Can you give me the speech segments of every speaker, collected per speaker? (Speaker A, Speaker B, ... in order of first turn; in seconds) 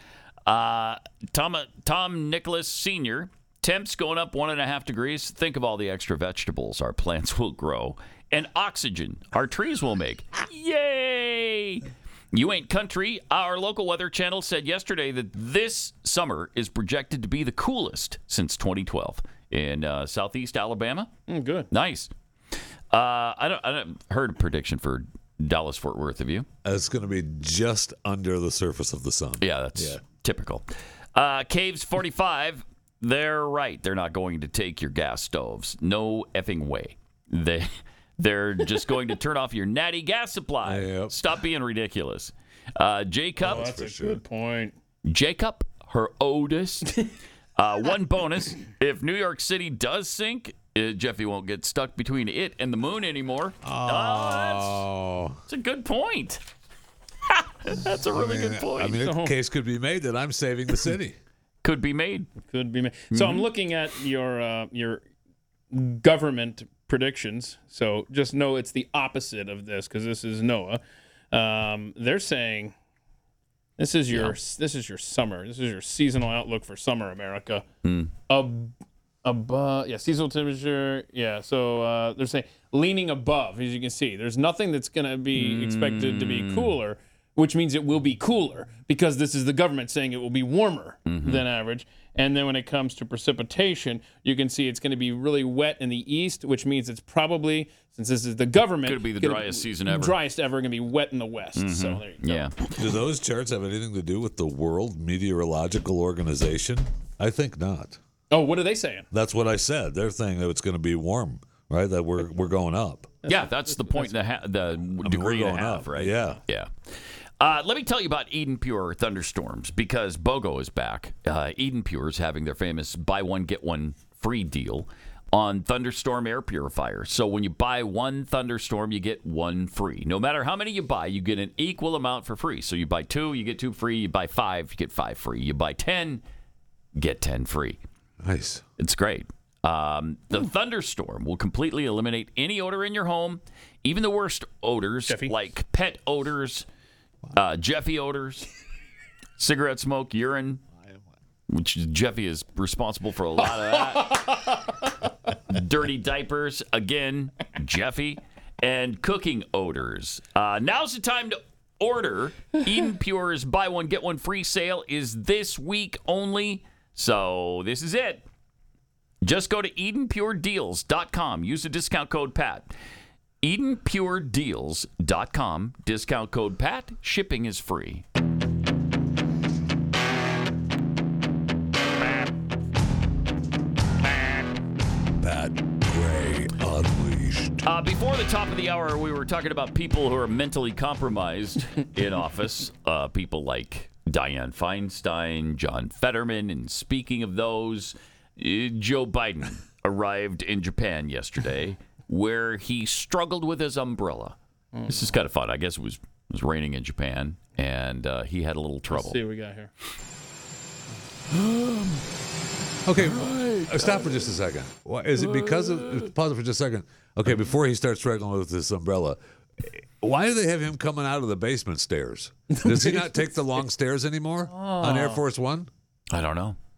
Speaker A: 0.5-21.1, 21.7-22.1, 22.9-26.5, 29.4-43.7, 45.0-47.0, 47.6-54.9, 55.5-56.4, 57.3-59.0, 61.6-62.3, 63.1-63.5, 74.1-74.4, 77.8-78.1, 85.3-86.8, 91.1-91.5, 98.8-100.2, 101.6-102.6, 113.3-136.2, 136.9-137.8, 138.8-146.7, 147.3-148.5, 149.4-150.6, 151.5-154.3, 155.5-168.2, 169.2-172.7, 173.4-178.0, 187.6-204.4, 204.9-209.2, 211.3-212.0, 213.0-214.2, 215.2-216.0, 226.1-226.6
Speaker B: 21.3-21.7, 43.4-44.8, 59.0-59.4, 62.5-65.0, 65.7-70.8, 71.3-72.7, 73.8-77.7, 78.3-102.5, 108.3-109.1, 113.2-114.2, 145.1-145.3, 153.9-154.3, 204.7-205.1, 208.9-209.7, 222.5-223.5, 224.5-225.2
Speaker C: 26.6-30.0, 40.6-41.1, 43.4-44.2, 53.6-55.4, 58.1-61.2, 102.8-108.0, 109.1-113.2, 115.0-116.4, 138.2-138.6, 185.2-187.7, 212.9-225.7